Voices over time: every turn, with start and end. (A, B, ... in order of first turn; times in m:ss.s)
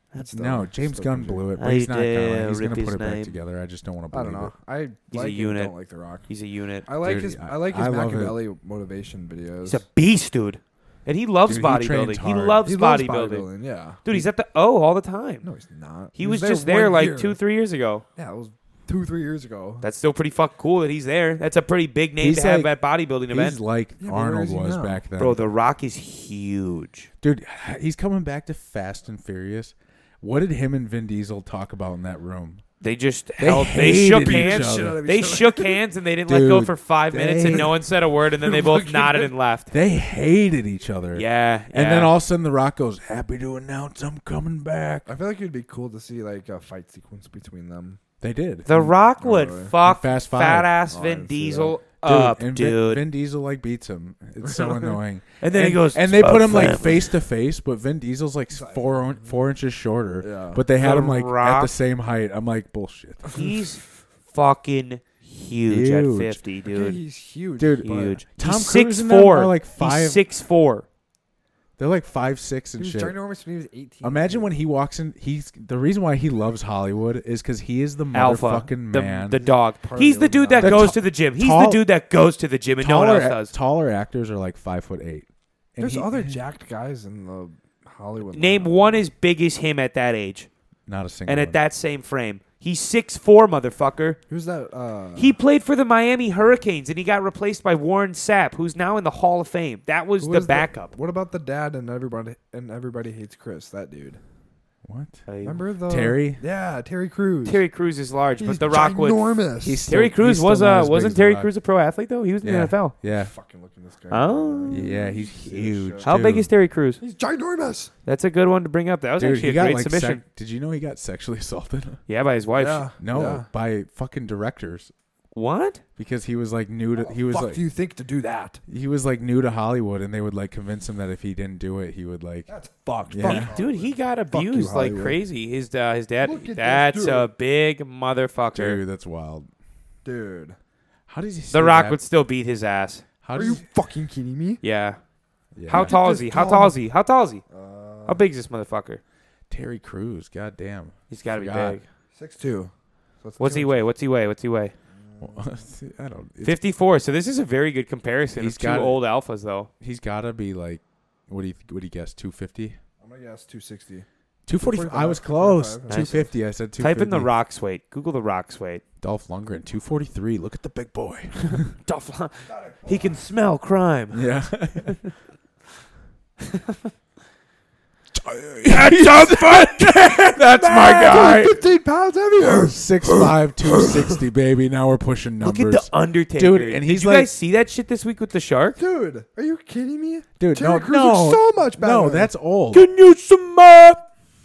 0:00.2-0:01.5 A
0:00.3-0:04.5 B
0:01.6-0:03.4 C
0:04.1-0:06.3 A
0:05.1-0:05.7 C
0:06.3-0:06.9 C
0:06.8-0:09.8 A
0:07.0-0:08.4 B
0:09.7-0:13.5 C
0:11.5-0:12.6 B
0:12.6-0:14.0 A
0:14.0-0:15.5 C
0:15.4-0:17.4 A
0:16.2-0:18.0 C
0:18.2-0:19.9 A
0:19.8-0:23.6 C
0:22.2-0:22.7 B
0:23.3-0:25.4 B
0:24.0-0:25.0 A
0:25.2-0:27.1 C
0:27.2-0:32.6 B
0:32.8-0:39.7 C
0:33.4-0:35.0 B
0:34.2-0:35.8 A
0:36.3-0:37.8 B
0:38.4-0:39.3 A
0:39.7-0:45.1 B
0:41.1-0:42.1 C
0:45.1-0:48.0 A
0:48.2-0:48.9 B
0:48.7-0:53.0 C
0:49.2-0:49.8 A
0:49.8-0:50.7 B
0:50.9-0:51.8 A
0:52.0-1:03.4 B
0:54.5-0:54.9 A
0:55.4-0:57.1 C
0:58.5-0:59.4 A
1:00.2-1:00.6 A
1:00.8-1:01.7 C
1:03.3-1:07.0 C
1:05.7-1:06.4 B
1:06.7-1:08.2 A
1:07.6-1:10.2 B
1:07.8-1:10.8 C
1:11.8-1:13.2 B
1:12.8-1:14.6 A
1:14.0-1:19.4 B
1:18.1-1:23.5 C
1:19.4-1:21.0 A
1:20.6-1:21.8 B
1:22.8-1:26.3 B
1:25.8-1:29.1 A
1:28.4-1:30.5 C
1:30.9-1:31.6 B
1:31.3-1:34.2 C
1:34.3-1:35.4 A
1:35.2-1:40.9 C
1:40.2-1:44.2 A
1:44.8-1:45.2 B
1:45.3-1:45.6 C
1:45.4-1:47.6 A
1:45.9-1:46.4 B
1:47.4-1:53.0 C
1:48.4-1:49.8 A
1:49.6-1:51.5 B
1:52.4-1:53.3 B
1:53.1-1:56.1 A
1:54.1-1:55.3 C
1:54.7-1:56.5 B
1:56.0-1:57.0 C
1:57.0-1:57.9 A
1:58.1-2:00.2 C
1:59.2-2:02.0 B
2:02.1-2:02.9 C
2:02.6-2:03.5 A
2:03.0-2:04.9 B
2:05.3-2:05.8 C
2:06.0-2:07.6 B
2:07.0-2:08.6 A
2:08.7-2:12.5 B
2:12.5-2:15.2 A
2:13.1-2:13.5 B
2:13.2-2:18.8 C
2:16.2-2:17.3 A
2:18.5-2:19.5 B
2:20.0-2:20.6 A
2:21.1-2:22.0 B
2:21.5-2:23.0 C
2:23.2-2:23.6 B
2:23.4-2:24.6 A
2:24.6-2:25.0 C
2:25.6-2:26.0 B
2:25.7-2:27.4 C
2:25.7-2:26.8 A
2:27.5-2:28.2 A
2:28.1-2:29.0 C
2:29.5-2:31.8 B
2:31.1-2:31.8 C
2:32.1-2:33.8 A
2:33.4-2:34.7 C
2:34.9-2:35.6 A
2:35.2-2:36.6 B
2:36.4-2:39.7 C
2:38.4-2:39.0 B
2:39.8-2:42.8 B
2:43.0-2:44.1 A
2:44.5-2:47.3 B
2:44.6-2:46.3 A
2:45.9-2:48.8 C
2:49.0-2:51.7 B
2:51.4-2:54.2 C
2:52.5-2:53.2 A
2:54.1-2:55.0 B
2:56.4-2:56.8 C
2:58.1-3:01.6 B
2:58.7-3:01.3 C
3:01.0-3:04.2 A
3:02.4-3:07.3 B
3:05.4-3:08.8 C
3:08.8-3:12.3 A
3:10.4-3:12.9 B
3:12.7-3:14.1 C